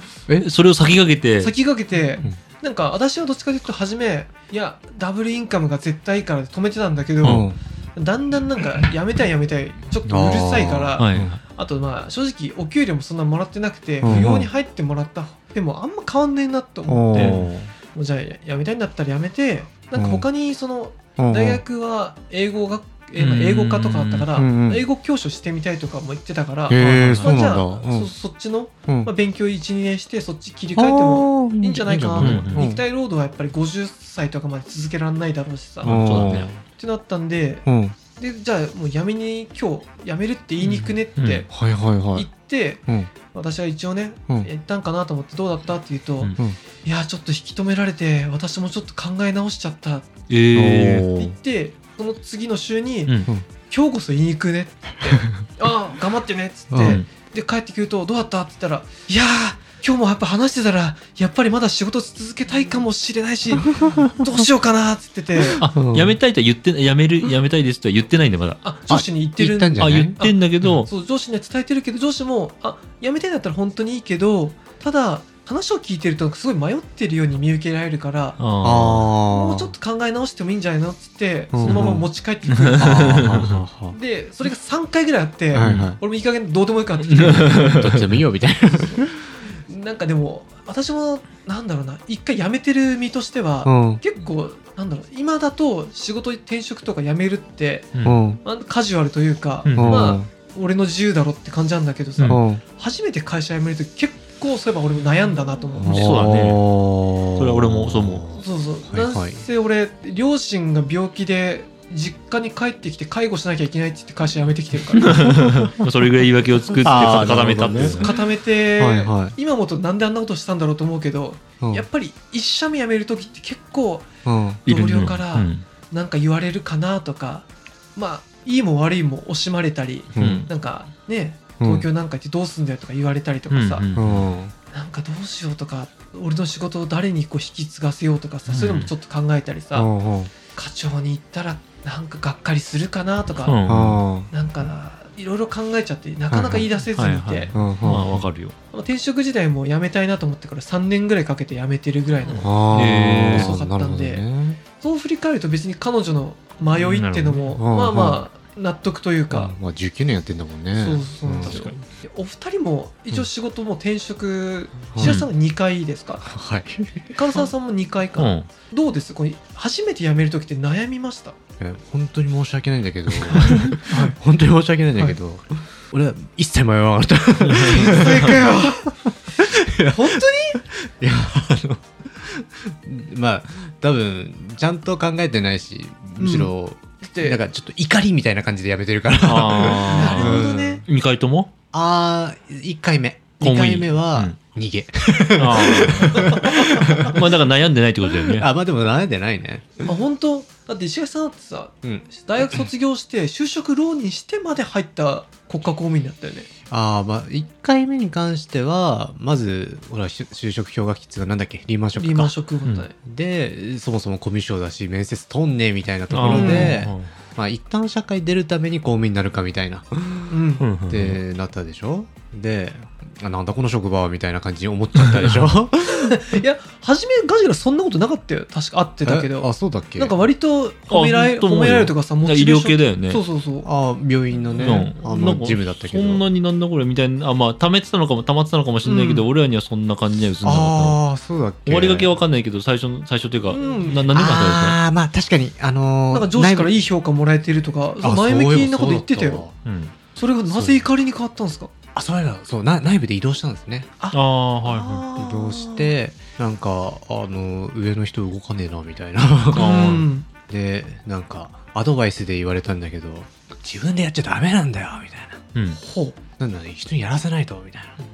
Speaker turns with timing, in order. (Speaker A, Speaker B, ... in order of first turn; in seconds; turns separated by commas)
Speaker A: 0.4-1.5, Speaker B: 1.4-41.5, Speaker A: 7.2-7.5, Speaker C: 7.2-7.6, Speaker C: 10.1-11.4, Speaker A: 11.0-11.3, Speaker C: 14.0-14.5, Speaker A: 14.0-14.3, Speaker C: 16.9-17.7, Speaker A: 17.1-17.4, Speaker C: 19.9-20.3, Speaker C: 21.2-21.6, Speaker A: 23.2-24.3, Speaker C: 24.4-24.9, Speaker C: 26.7-28.1, Speaker A: 26.8-27.4, Speaker C: 30.8-32.8, Speaker A: 32.2-32.7, Speaker C: 35.8-36.6, Speaker A: 35.8-36.5, Speaker C: 37.7-38.0, Speaker A: 40.6-41.5, Speaker C: 41.5-42.3, Speaker B: 42.1-50.1, Speaker A: 50.3-51.1, Speaker C: 50.5-51.3, Speaker B: 51.1-53.1, Speaker B: 53.7-65.6, Speaker C: 56.7-57.0, Speaker A: 65.6-68.6, Speaker C: 65.6-66.2, Speaker B: 68.6-78.4, Speaker C: 68.9-70.8, Speaker A: 69.8-70.9, Speaker A: 78.4-79.1, Speaker C: 78.6-79.7, Speaker B: 79.3-83.4, Speaker C: 81.5-82.1, Speaker A: 81.6-83.6, Speaker C: 82.8-84.0, Speaker B: 83.9-87.9, Speaker C: 85.5-86.0, Speaker A: 85.6-85.9, Speaker A: 87.0-88.2, Speaker C: 87.5-89.2, Speaker B: 88.6-89.1, Speaker B: 89.6-106.1, Speaker C: 93.6-94.0, Speaker A: 97.9-98.2, Speaker C: 98.0-98.4, Speaker A: 99.6-100.1, Speaker C: 99.8-100.3, Speaker C: 102.3-102.6, Speaker C: 105.8-109.4, Speaker A: 105.8-106.6, Speaker A: 107.3-108.2, Speaker B: 108.3-115.3, Speaker A: 115.0-118.1, Speaker C: 116.8-118.2, Speaker B: 117.9-124.1, Speaker C: 118.8-119.3, Speaker C: 124.2-124.6, Speaker B: 124.7-133.8, Speaker A: 124.7-125.6, Speaker C: 130.1-130.4, Speaker A: 130.2-130.5, Speaker C: 131.6-131.9, Speaker A: 133.5-134.2, Speaker C: 133.9-134.5, Speaker B: 134.7-139.9, Speaker A: 138.5-138.9, Speaker C: 139.7-140.3, Speaker B: 140.5-143.6, Speaker A: 143.4-144.0, Speaker C: 143.7-144.3, Speaker B: 144.3-147.5, Speaker C: 146.3-146.7, Speaker A: 146.9-148.5, Speaker C: 147.5-148.3, Speaker B: 148.7-154.2, Speaker C: 152.4-154.6, Speaker A: 152.7-153.5, Speaker B: 154.8-159.5, Speaker A: 156.8-157.5, Speaker C: 157.6-158.2, Speaker C: 159.3-161.6, Speaker B: 160.8-166.3, Speaker A: 161.4-161.8, Speaker C: 164.9-165.2, Speaker A: 165.0-165.3, Speaker C: 166.2-167.2, Speaker B: 167.1-171.3, Speaker A: 168.2-168.5, Speaker C: 171.6-190.8, Speaker B: 173.3-174.2, Speaker A: 177.4-178.3, Speaker B: 177.7-178.8, Speaker B: 179.9-180.6, Speaker B: 186.2-187.4, Speaker A: 189.2-191.5, Speaker B: 189.9-190.8, Speaker C: 191.7-197.2, Speaker A: 193.4-194.4, Speaker A: 195.4-196.5, Speaker B: 195.6-197.1, Speaker A: 197.0-198.5, Speaker C: 198.3-199.9, Speaker B: 199.8-206.5, Speaker C: 201.8-202.6, Speaker C: 206.7-212.3, Speaker B: 212.0-212.9, Speaker C: 213.0-220.3, Speaker A: 216.1-217.1, Speaker B: 216.3-216.8, Speaker B: 220.3-220.7, Speaker A: 220.6-221.2, Speaker C: 220.9-226.4, Speaker B: 225.8-233.7, Speaker C: 229.0-230.2, Speaker A: 230.9-233.2, Speaker C: 233.6-236.2, Speaker B: 234.5-234.8, Speaker A: 234.6-241.0, Speaker B: 238.8-239.3, Speaker C: 240.4-242.1, Speaker A: 241.7-244.8, Speaker B: 243.5-244.1, Speaker C: 244.1-246.7, Speaker B: 246.1-249.5, Speaker C: 248.0-249.5, Speaker A: 249.7-250.0, Speaker B: 250.2-251.7, Speaker C: 250.5-250.9, Speaker C: 251.9-253.9, Speaker B: 254.0-255.9, Speaker A: 254.1-255.0, Speaker C: 255.2-265.4, Speaker A: 259.5-260.1, Speaker B: 259.5-260.3, Speaker A: 265.6-265.8, Speaker B: 265.7-266.2, Speaker C: 266.4-268.0